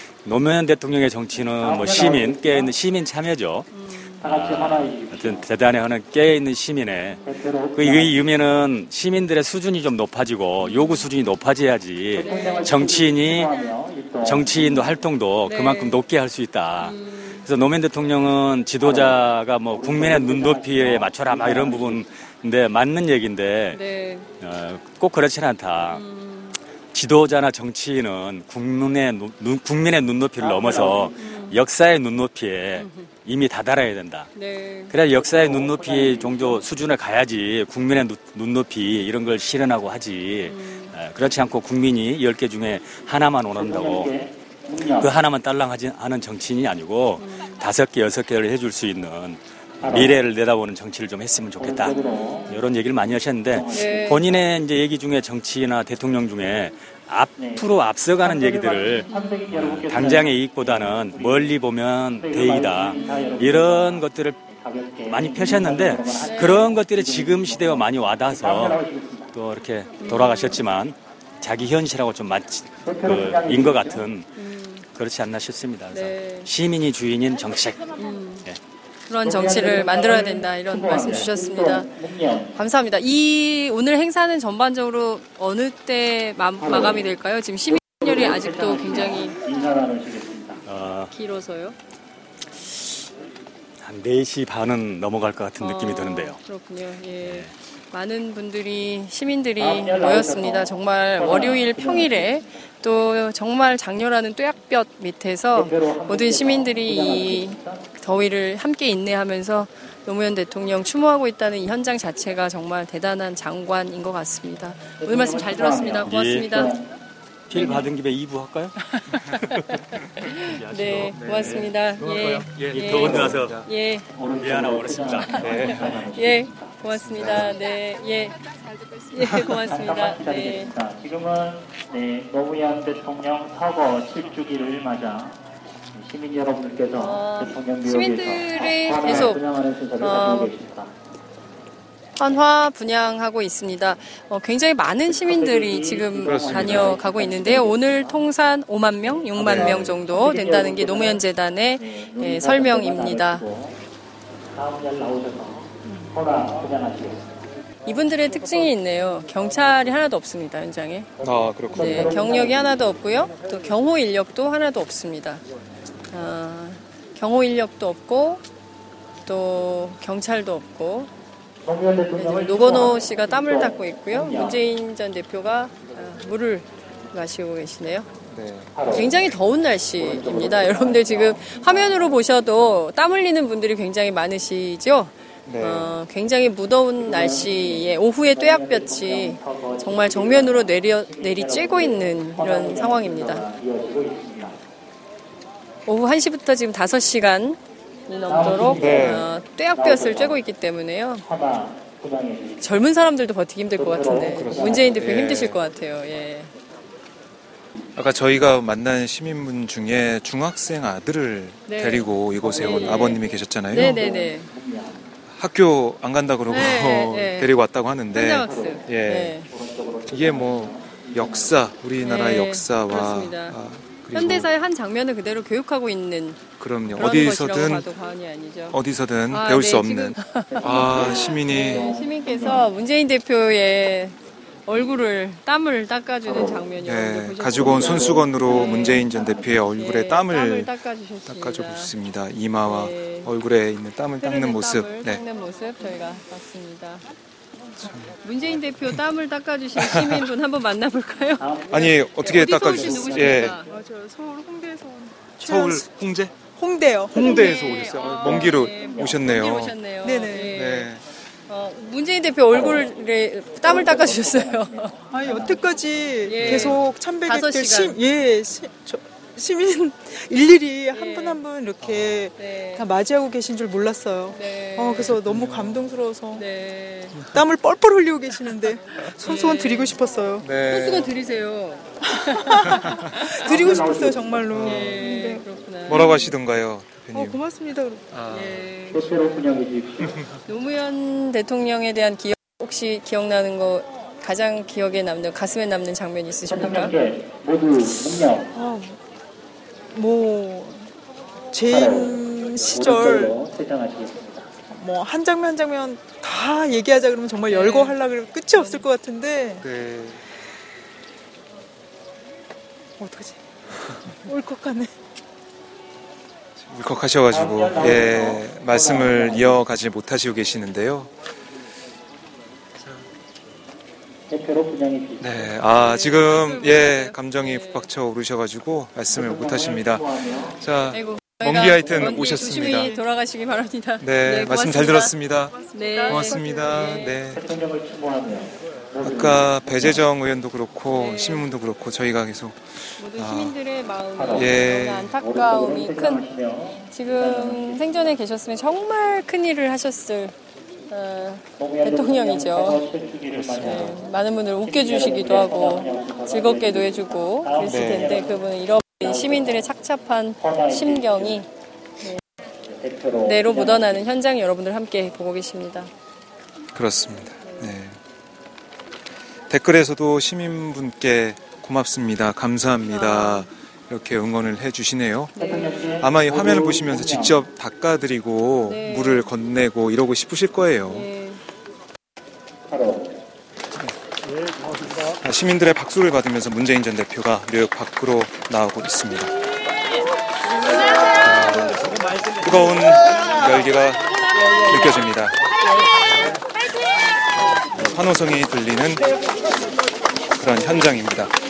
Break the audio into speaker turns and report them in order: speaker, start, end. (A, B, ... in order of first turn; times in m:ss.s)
0:00.2-0:03.7 A
0:01.5-0:02.7 B
0:03.7-0:04.2 C
0:04.2-0:05.4 B
0:04.2-0:07.2 A
0:07.2-0:08.1 B
0:07.8-0:13.5 A
0:10.6-0:11.0 C
0:12.1-0:14.9 B
0:12.2-0:12.7 C
0:14.2-0:23.8 A
0:15.4-0:16.0 C
0:16.8-0:17.4 C
0:18.8-0:22.0 B
0:23.7-0:24.3 C
0:24.4-0:26.0 A
0:25.9-0:26.6 C
0:26.9-0:34.3 A
0:30.4-0:31.2 B
0:31.2-0:31.6 C
0:32.8-0:33.1 C
0:34.3-0:34.9 C
0:34.9-0:44.1 A
0:35.1-0:36.6 B
0:40.5-0:40.9 C
0:43.6-0:45.1 B
0:45.0-1:04.4 A
0:47.2-0:47.6 C
0:49.8-0:50.2 B
0:51.6-0:52.6 B
0:52.1-0:52.5 C
0:53.5-0:54.4 B
0:53.7-0:54.2 C
0:57.3-1:01.6 B
0:59.1-0:59.5 C
1:02.1-1:09.3 B
1:02.9-1:03.5 C
1:05.1-1:08.8 A
1:06.2-1:06.7 C
1:09.3-1:14.3 A
1:10.0-1:10.6 C
1:12.8-1:14.0 B
1:14.4-1:14.8 C
1:14.9-1:17.9 A
1:15.9-1:16.5 C
1:18.0-1:18.4 C
1:19.1-1:21.9 C
1:19.2-1:22.5 B
1:22.5-1:29.4 C
1:26.6-1:27.1 B
1:27.7-1:30.6 B
1:30.6-1:31.1 A
1:31.1-1:31.7 C
1:33.8-1:36.4 A
1:35.6-1:56.7 C
1:37.2-1:37.5 A
1:39.6-1:42.4 B
1:45.5-1:47.8 B
1:55.0-1:57.0 B
1:56.0-1:56.5 A
1:57.5-1:58.8 A
1:57.5-1:57.8 B
1:58.9-2:04.1 C
1:59.3-1:59.7 A
2:00.4-2:03.7 A
2:01.1-2:01.6 D
2:02.5-2:03.6 D
2:04.1-2:07.5 B
2:04.4-2:05.7 A
2:05.4-2:05.8 D
2:05.6-2:08.4 C
2:09.1-2:10.7 C
2:09.5-2:15.4 B
2:15.9-2:20.9 B
2:17.0-2:19.4 C
2:19.0-2:19.3 D
2:20.0-2:20.5 C
2:22.2-2:33.4 C
2:25.1-2:28.2 B
2:26.2-2:27.0 D
2:29.4-2:31.2 B
2:29.4-2:30.0 D
2:31.8-2:33.8 B
2:34.5-2:37.5 B
2:35.8-2:36.1 C
2:37.8-2:41.1 C
2:41.2-2:42.7 B
2:41.2-2:42.1 D
2:41.7-2:45.4 C
2:46.1-2:48.4 C
2:49.2-2:51.1 C
2:51.6-2:54.6 B
2:52.2-2:58.1 C
2:58.3-2:58.7 D
2:58.7-2:59.3 B
2:58.9-3:13.4 C
3:00.0-3:02.2 B
3:05.4-3:05.9 D
3:07.0-3:14.6 B
3:15.8-3:21.2 C
3:18.3-3:20.4 B
3:18.7-3:19.3 D
3:21.2-3:22.9 B
3:22.6-3:26.5 C
3:23.8-3:24.9 B
3:24.3-3:25.6 D
3:28.0-3:34.0 D
3:31.7-3:34.5 C
3:32.4-3:35.1 B
3:35.3-3:39.4 D
3:36.5-3:37.5 C
3:38.1-3:39.5 C
3:38.4-3:41.6 B
3:40.1-3:44.5 D
3:42.0-3:43.6 C
3:44.1-3:48.8 C
3:46.6-3:47.9 D
3:48.7-3:52.0 D
3:49.3-3:59.1 C
3:50.5-3:52.7 B
3:56.2-3:56.6 B
3:56.8-4:00.7 D
3:57.5-3:59.6 B
3:59.7-4:01.9 C
4:01.3-4:05.2 D
4:02.6-4:03.3 C
4:04.2-4:07.0 C
4:07.8-4:08.1 D
4:08.2-4:11.5 C
4:11.4-4:13.5 B
4:11.7-4:13.5 D
4:12.2-4:13.7 C
4:13.6-4:15.9 E
4:15.4-4:16.4 D
4:16.5-4:17.5 E
4:17.1-4:19.7 D
4:17.1-4:20.9 C
4:18.3-4:19.2 B
4:20.0-4:20.8 E
4:20.5-4:21.0 D
4:21.5-4:24.9 C
4:22.5-4:22.9 B
4:23.6-4:25.6 B
4:25.1-4:36.4 E
4:26.2-4:28.0 C
4:26.4-4:26.7 B
4:30.9-4:31.4 C
4:31.8-4:32.2 D
4:32.3-4:32.8 C
4:34.3-4:35.1 C
4:35.0-4:35.8 D
4:36.3-4:37.2 C
4:37.3-4:40.5 E
4:39.1-4:39.9 C
4:40.4-4:41.1 D
4:40.6-4:43.7 C
4:42.5-4:46.3 E
4:43.4-4:44.4 B
4:44.5-4:44.9 D
4:44.6-4:46.3 C
4:45.9-4:47.4 D
4:47.1-4:48.0 E
4:48.1-4:48.6 D
4:48.3-4:49.1 C
4:48.9-4:50.1 B
4:50.4-4:56.9 C
4:56.5-4:58.5 B
4:58.5-4:59.0 E
4:59.9-5:00.9 E
5:01.5-5:03.4 E
5:01.7-5:04.5 B
5:04.7-5:09.7 E
5:07.5-5:08.0 C
5:08.6-5:08.8 C
5:09.6-5:10.2 D
5:13.0-5:13.4 E
5:14.2-5:14.9 E
5:16.6-5:21.1 D
5:17.3-5:19.6 B
5:24.3-5:25.6 B
5:25.2-5:32.9 D
5:25.7-5:27.9 C
5:29.1-5:30.6 B
5:30.9-5:35.1 C
5:32.0-5:33.0 E
5:34.0-5:37.4 D
5:35.7-5:37.2 C
5:35.7-5:36.6 E
5:37.3-5:40.0 B
5:39.0-5:43.5 D
5:40.9-5:41.5 C
5:43.0-5:46.2 C
5:44.2-5:48.1 B
5:44.3-5:45.1 D
5:46.9-5:50.3 C
5:50.9-5:52.8 C
5:51.6-5:54.0 B
5:53.3-5:53.9 D
5:53.6-6:01.5 C
5:54.6-5:58.4 B
5:57.6-5:58.2 D
5:59.0-5:59.7 B
6:00.4-6:01.4 B
6:02.6-6:04.0 B
6:03.2-6:05.9 C
6:06.7-6:08.0 D
6:07.4-6:07.7 C
6:09.5-6:15.3 D
6:12.8-6:13.5 C
6:15.4-6:16.0 C
6:15.4-6:17.4 B
6:16.0-6:21.1 D
6:18.6-6:19.3 C
6:20.9-6:21.4 C
6:22.7-6:23.2 B
6:25.2-6:29.3 D
6:31.2-6:34.1 D
6:34.6-6:35.3 D
6:37.7-6:39.0 D
6:40.4-6:41.3 D